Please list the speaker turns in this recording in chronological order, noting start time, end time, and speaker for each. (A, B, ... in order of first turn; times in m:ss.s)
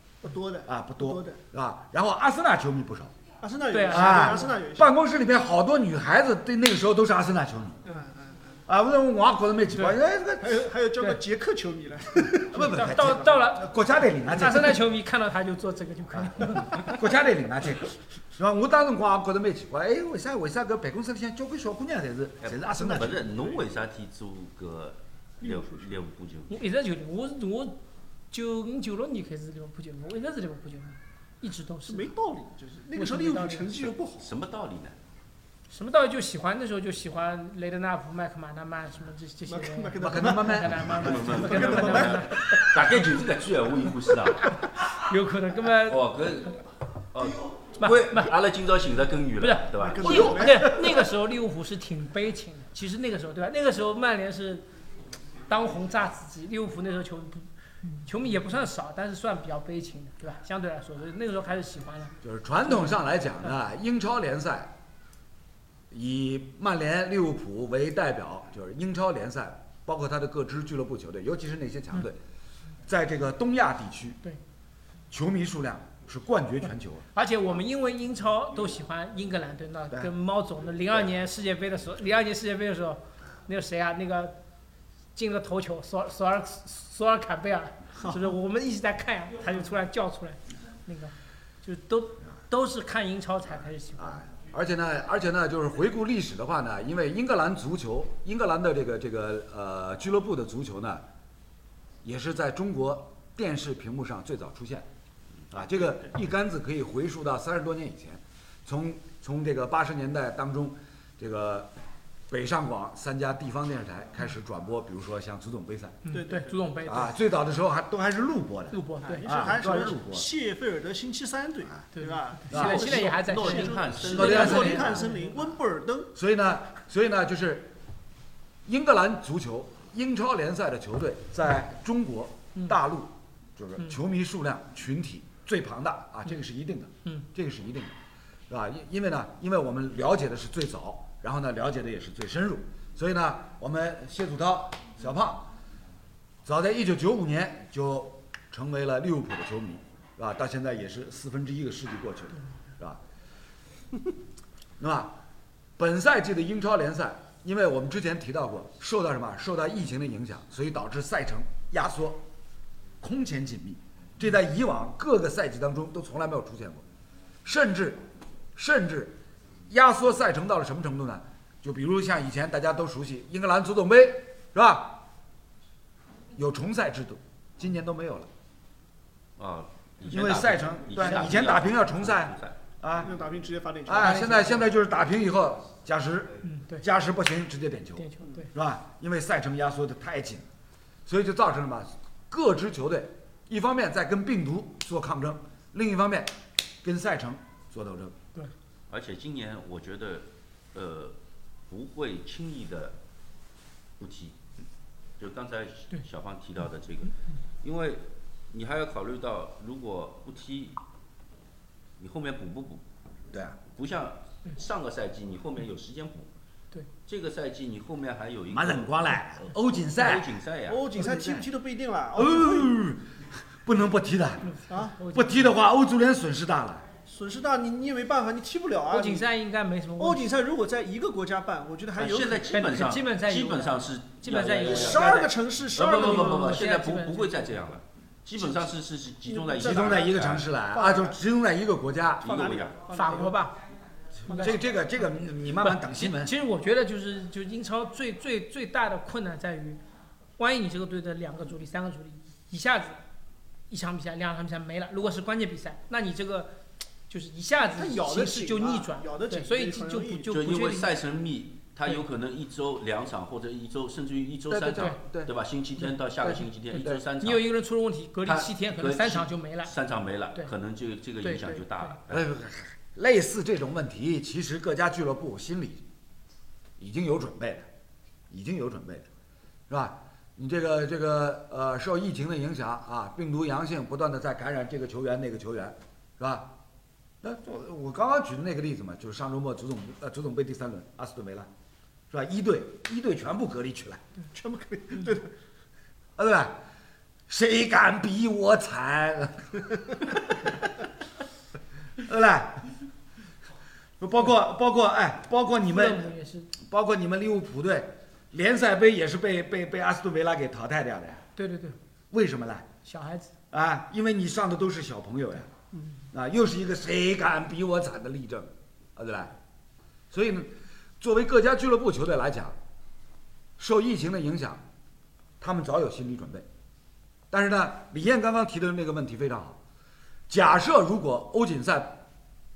0:00.2-0:01.4 A
0:00.6-0:03.1 B
0:03.4-0:04.9 A
0:03.7-0:04.5 C
0:03.9-0:07.8 B
0:07.8-0:08.4 A
0:08.7-0:10.7 B
0:10.4-0:12.7 A
0:12.5-0:14.8 B
0:12.6-0:16.9 C
0:16.1-0:23.2 B
0:22.4-0:26.6 D
0:25.4-0:26.0 A
0:26.5-0:27.8 C
0:28.3-0:32.1 C
0:31.9-0:34.3 A
0:32.9-0:33.8 C
0:34.2-0:34.9 D
0:35.7-0:42.7 C
0:39.5-0:42.6 A
0:40.0-0:40.9 B
0:40.9-0:44.5 D
0:44.8-0:46.0 C
0:45.8-0:46.6 D
0:47.1-0:50.4 D
0:47.8-0:48.3 C
0:49.4-0:54.6 C
0:49.8-0:51.1 A
0:55.5-1:03.0 C
1:02.2-1:04.7 B
1:05.9-1:12.2 B
1:12.8-1:14.2 B
1:15.1-1:17.0 B
1:17.1-1:24.4 C
1:25.1-1:34.2 C
1:34.0-1:41.0 B
1:42.0-1:44.9 B
1:45.5-1:51.7 B
1:52.3-1:56.1 B
1:56.0-1:57.2 C
1:56.1-1:56.6 A
1:56.8-2:00.3 B
1:58.7-1:59.9 C
1:59.0-2:06.1 A
2:01.9-2:05.3 C
2:02.5-2:02.8 B
2:02.5-2:05.0 D
2:04.1-2:05.0 B
2:06.1-2:07.7 B
2:08.6-2:17.9 B
2:18.5-2:25.5 B
2:26.4-2:33.0 B
2:34.8-2:35.1 B
2:35.8-2:42.2 B
2:43.0-2:46.8 B
2:47.4-2:48.0 B
2:48.5-2:49.2 B
2:49.7-2:55.0 B
2:56.3-2:58.3 B
2:59.4-3:02.6 D
3:00.1-3:03.1 B
3:03.0-3:04.7 A
3:03.8-3:10.4 B
3:04.0-3:04.3 C
3:06.4-3:06.8 C
3:08.0-3:08.5 C
3:11.0-3:16.3 B
3:16.8-3:18.2 B
3:18.9-3:21.2 D
3:21.7-3:23.0 D
3:24.0-3:24.4 D
3:25.2-3:30.8 D
3:32.0-3:32.8 D
3:33.3-3:33.6 B
3:33.7-3:36.3 D
3:37.0-3:39.1 D
3:38.5-3:40.4 B
3:40.0-3:40.9 D
3:40.7-3:42.7 A
3:41.0-3:41.4 B
3:42.1-3:43.0 B
3:43.6-3:44.5 B
3:44.4-3:45.5 C
3:44.7-3:44.9 A
3:45.1-3:46.8 B
3:47.0-3:49.3 A
3:48.9-3:50.3 C
3:50.0-3:52.5 A
3:51.9-4:00.5 D
3:52.5-3:55.3 C
3:54.7-3:56.6 A
3:55.8-3:57.7 C
3:58.4-3:58.7 A
3:59.3-4:01.2 A
3:59.6-4:02.5 B
4:02.2-4:02.8 D
4:02.2-4:03.4 A
4:02.9-4:03.5 C
4:04.2-4:06.3 B
4:04.3-4:04.6 C
4:05.6-4:09.8 C
4:10.4-4:13.0 C
4:13.7-4:16.5 C
4:17.1-4:21.0 C
4:17.7-4:20.4 A
4:20.3-4:27.5 D
4:24.5-4:25.3 B
4:26.2-4:29.7 C
4:28.2-4:32.2 D
4:31.2-4:32.0 C
4:32.1-4:35.8 B
4:36.8-4:37.7 B
4:38.3-4:39.1 B
4:39.7-4:46.5 B
4:47.2-4:51.5 B
4:52.1-4:54.0 B
4:54.3-4:55.3 A
4:56.2-4:56.6 B
4:57.3-5:00.6 B
5:02.0-5:02.7 B
5:04.0-5:11.2 B
5:05.7-5:06.5 C
5:11.4-5:11.8 C
5:12.1-5:12.7 B
5:12.8-5:13.3 C
5:13.5-5:15.5 B
5:16.1-5:19.3 B
5:20.1-5:22.6 B
5:23.6-5:24.6 B
5:25.4-5:26.4 B
5:27.3-5:29.6 B
5:30.3-5:32.0 B